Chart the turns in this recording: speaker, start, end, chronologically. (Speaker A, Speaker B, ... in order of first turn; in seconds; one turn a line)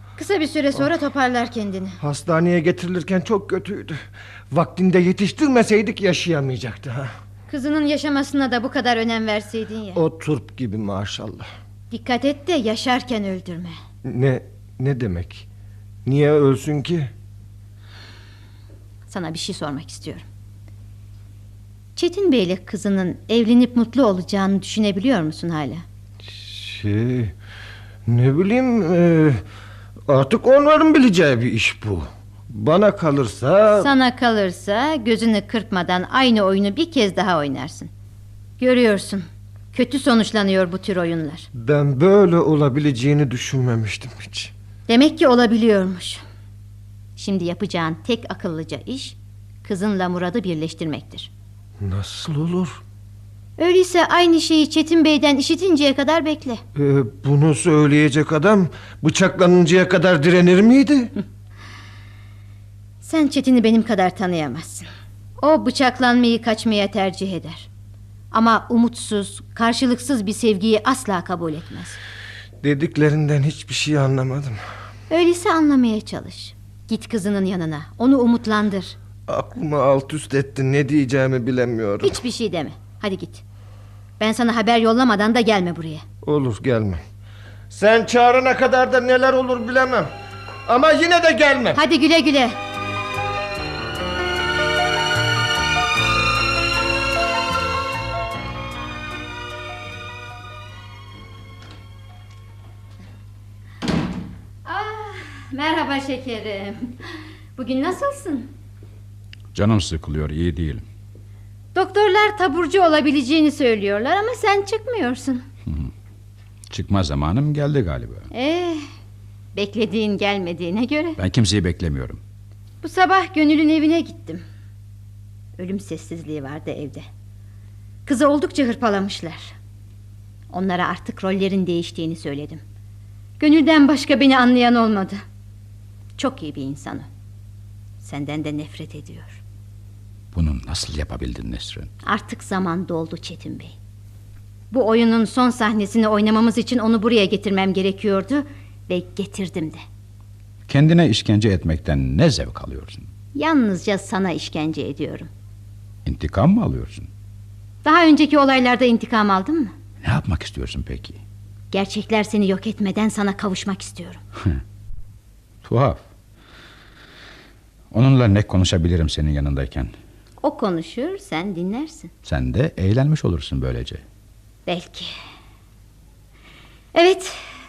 Speaker A: 0.2-2.0
Speaker B: 2.0-7.1
Speaker A: 7.5-10.0
Speaker B: 9.9-11.5
Speaker A: 11.9-13.8
Speaker B: 14.1-15.4
Speaker B: 16.1-17.1
Speaker A: 19.1-20.2
Speaker A: 22.0-25.8
Speaker B: 26.4-27.3
Speaker B: 28.1-29.4
Speaker B: 30.1-33.9
Speaker A: 33.8-37.9
Speaker A: 38.6-41.5
Speaker B: 41.5-44.5
Speaker A: 44.9-46.2
Speaker A: 47.2-51.3
Speaker B: 51.8-52.8
Speaker A: 53.6-56.6
Speaker B: 56.8-61.1
Speaker A: 63.0-64.9
Speaker A: 65.4-67.7
Speaker A: 68.3-72.0
Speaker B: 72.6-74.6
Speaker A: 75.1-79.0
Speaker B: 79.3-82.2
Speaker A: 82.0-83.4
Speaker A: 84.2-86.0
Speaker B: 86.2-87.0
Speaker B: 87.7-90.1
Speaker B: 90.7-91.8
Speaker A: 91.8-92.6
Speaker A: 104.7-107.0
Speaker A: 107.6-108.5
Speaker C: 109.5-110.8
Speaker A: 111.8-115.5
Speaker C: 115.7-115.9
Speaker C: 116.7-118.3
Speaker A: 118.3-118.8
Speaker A: 119.5-121.2
Speaker C: 121.2-122.2
Speaker A: 122.8-124.4
Speaker A: 125.6-127.0
Speaker A: 128.1-129.5
Speaker A: 130.5-132.6
Speaker A: 133.4-135.2
Speaker A: 136.2-137.1
Speaker A: 138.0-139.4
Speaker C: 140.3-141.9
Speaker A: 142.1-143.8
Speaker A: 144.7-149.8
Speaker C: 150.7-153.1
Speaker A: 153.3-155.3
Speaker C: 156.1-157.1
Speaker A: 157.8-159.7
Speaker C: 160.0-161.2
Speaker A: 161.7-164.2
Speaker C: 165.6-166.0
Speaker C: 167.9-169.9
Speaker A: 170.4-172.1
Speaker C: 172.2-174.0
Speaker A: 174.7-175.1
Speaker A: 176.9-177.4